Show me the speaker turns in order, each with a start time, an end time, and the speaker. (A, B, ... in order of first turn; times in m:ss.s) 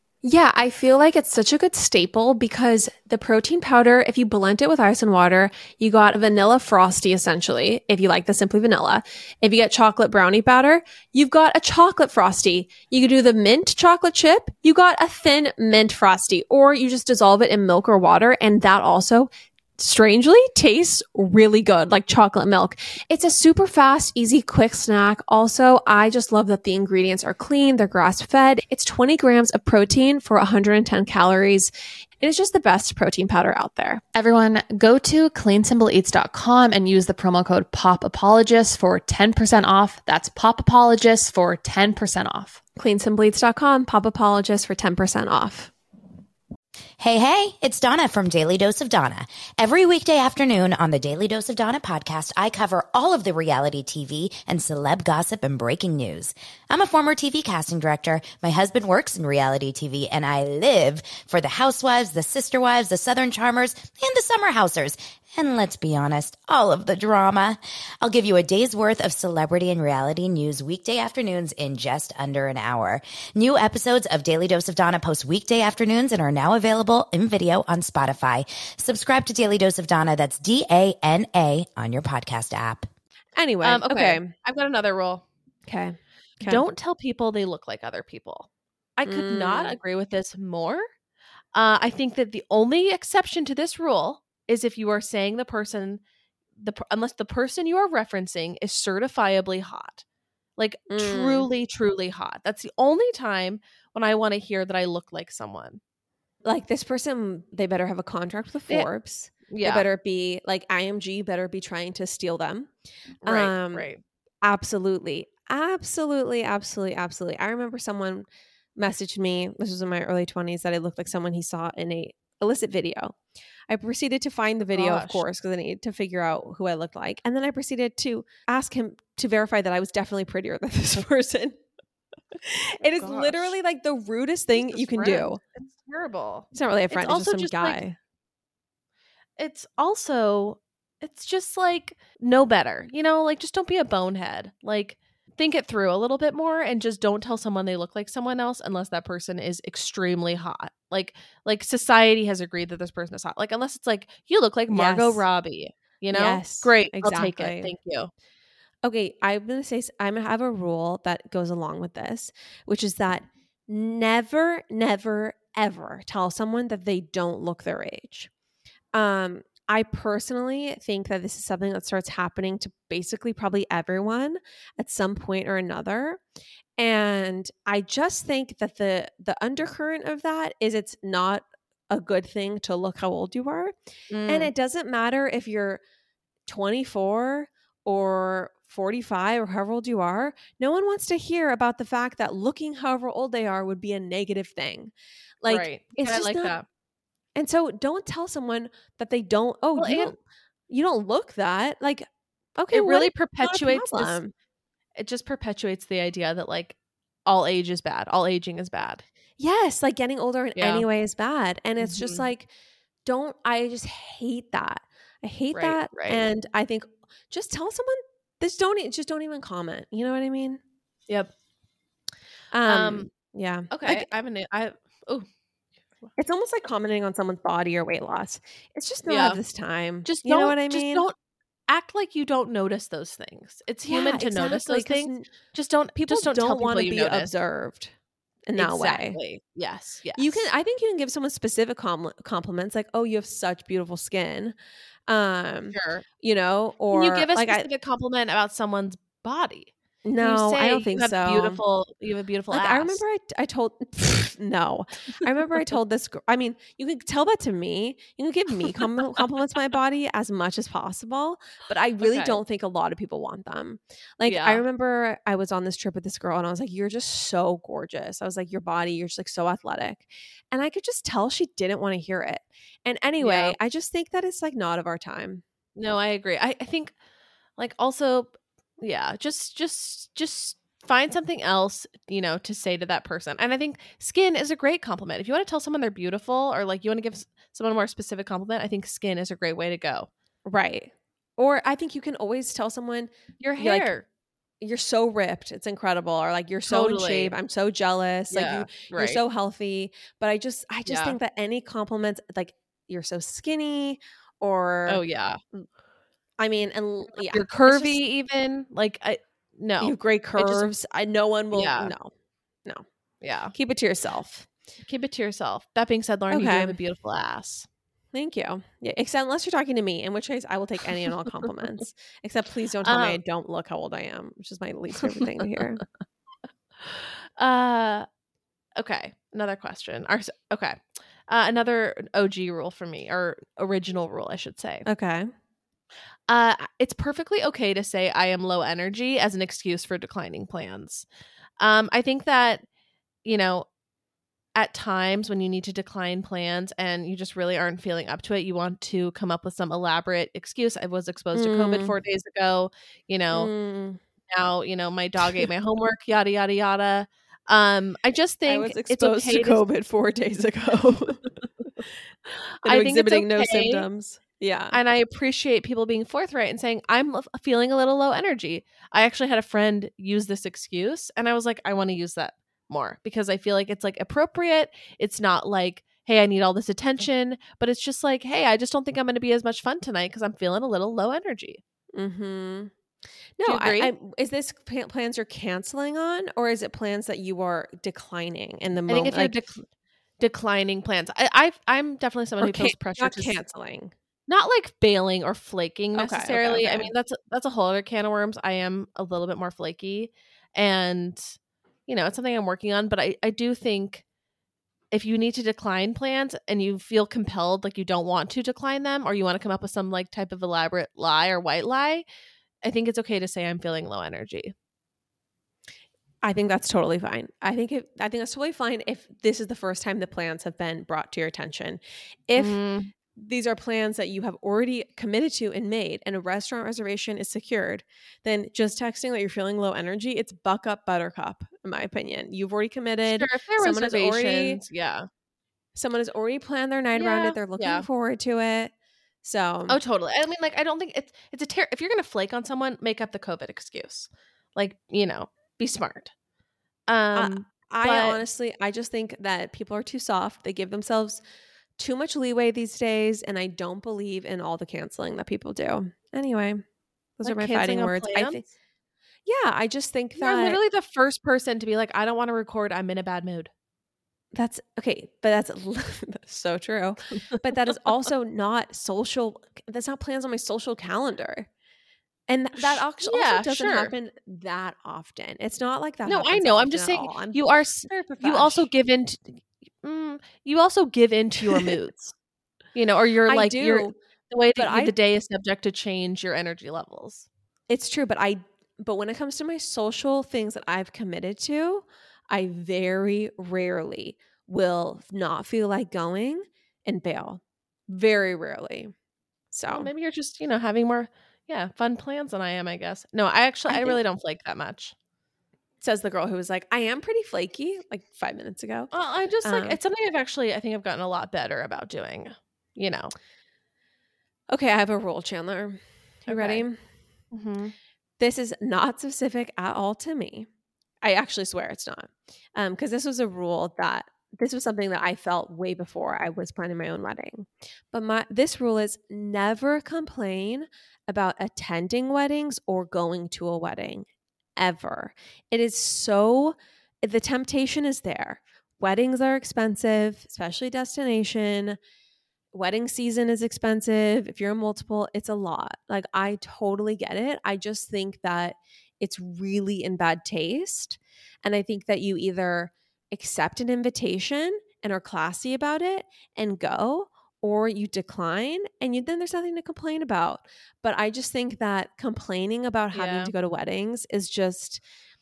0:00.2-0:34.0 A
0:34.2-0:42.6 B
0:42.8-0:45.7 A
0:47.0-1:22.9 C
1:23.4-1:24.3 A
1:23.6-1:25.2 D
1:25.7-1:26.6 A
1:26.4-1:28.5 D
1:29.0-1:30.9 D
1:29.0-1:29.8 A
1:31.5-1:36.0 D
1:36.6-1:40.0 D
1:40.6-1:45.8 D
1:40.9-1:41.5 A
1:46.4-1:52.7 A
1:49.5-1:49.9 D
1:53.2-1:53.9 A
1:53.2-1:54.0 D
1:54.4-1:58.3 A
1:58.8-2:03.2 A
2:03.7-2:11.6 A
2:04.7-2:05.2 D
2:12.4-2:15.4 A
2:12.8-2:13.6 D
2:14.6-2:17.8 D
2:16.5-2:18.0 A
2:19.4-2:38.1 D
2:34.7-2:35.3 A
2:36.1-2:37.7 A
2:38.8-2:48.3 A
2:48.9-2:56.2 A
2:56.8-3:03.8 A
3:04.1-3:04.5 D
3:04.3-3:05.8 A
3:06.5-3:16.6 A
3:15.5-3:16.7 D
3:17.4-3:20.2 A
3:19.8-3:20.2 D
3:20.7-3:24.3 A
3:22.7-3:24.2 D
3:25.0-3:29.0 D
3:29.4-3:32.5 A
3:30.6-3:30.8 D
3:31.8-3:32.2 D
3:33.0-3:40.6 A
3:35.5-3:36.2 D
3:42.5-3:44.1 A
3:42.7-3:43.1 D
3:43.7-3:45.3 D
3:46.2-3:51.1 A
3:49.0-3:49.4 D
3:50.0-3:51.2 D
3:51.7-3:57.3 D
3:53.8-3:55.3 A
3:56.0-3:57.9 A
3:58.5-3:59.2 A
3:58.6-4:00.5 D
4:00.2-4:07.7 A
4:05.7-4:06.0 D
4:06.9-4:13.0 D
4:10.0-4:11.6 A
4:12.5-4:35.4 A
4:22.0-4:22.4 D
4:24.3-4:24.6 D
4:33.2-4:33.6 D
4:35.8-4:37.0 D
4:37.6-4:50.1 D
4:50.5-4:53.9 A
4:53.4-4:54.0 D
4:54.6-5:05.7 A
4:56.7-4:57.4 D
4:58.3-4:59.2 D
5:00.9-5:01.2 D
5:04.9-5:05.4 D
5:06.4-5:08.0 A
5:07.2-5:10.7 D
5:09.8-5:12.1 A
5:11.5-5:11.9 D
5:13.2-5:13.5 D
5:13.5-5:14.5 A
5:14.8-5:17.7 D
5:16.3-5:16.8 A
5:18.1-5:25.8 A
5:22.8-5:23.2 D
5:27.4-5:28.1 D
5:28.8-5:34.9 D
5:34.9-5:35.3 A
5:36.3-5:41.1 D
5:41.6-5:42.6 D
5:43.2-5:43.7 D
5:44.6-5:53.5 D
5:51.3-5:51.9 A
5:53.3-5:54.0 A
5:54.3-5:59.6 D
5:58.5-6:01.3 A
6:02.6-6:03.9 D
6:02.6-6:04.8 A
6:04.7-6:21.6 D
6:21.9-6:22.7 A
6:23.4-6:29.4 A
6:23.4-6:23.9 D
6:28.9-6:29.7 D
6:30.2-6:33.4 D
6:32.4-6:33.9 A
6:34.3-6:41.4 D
6:36.0-6:36.9 A
6:41.9-6:44.0 D
6:44.9-6:52.0 D
6:52.6-6:54.5 D
6:56.2-7:02.6 A
7:02.4-7:02.9 D
7:03.1-7:14.6 A
7:13.1-7:15.1 D
7:15.8-7:18.7 A
7:16.9-7:17.9 D
7:19.2-7:19.8 A
7:19.7-7:26.1 D
7:26.9-7:28.2 D
7:27.2-7:31.2 A
7:31.8-7:36.6 A
7:37.2-7:38.5 A
7:37.2-7:38.4 D
7:39.3-7:40.6 A
7:40.2-7:43.5 D
7:44.3-7:51.5 A
7:52.3-7:58.7 A
7:52.6-7:53.9 D
7:56.1-8:02.1 D
8:02.7-8:07.3 D
8:03.3-8:03.9 A
8:04.6-8:05.0 A
8:07.7-8:18.9 A
8:19.5-8:19.9 A
8:19.7-8:24.9 D
8:23.7-8:24.0 A
8:25.8-8:28.9 A
8:28.9-8:33.1 D
8:29.4-8:29.8 A
8:34.5-8:36.8 A
8:36.3-8:36.6 D
8:37.3-8:37.7 D
8:38.2-8:40.5 A
8:41.0-9:01.8 A
9:02.5-9:24.8 A
9:22.9-9:23.3 D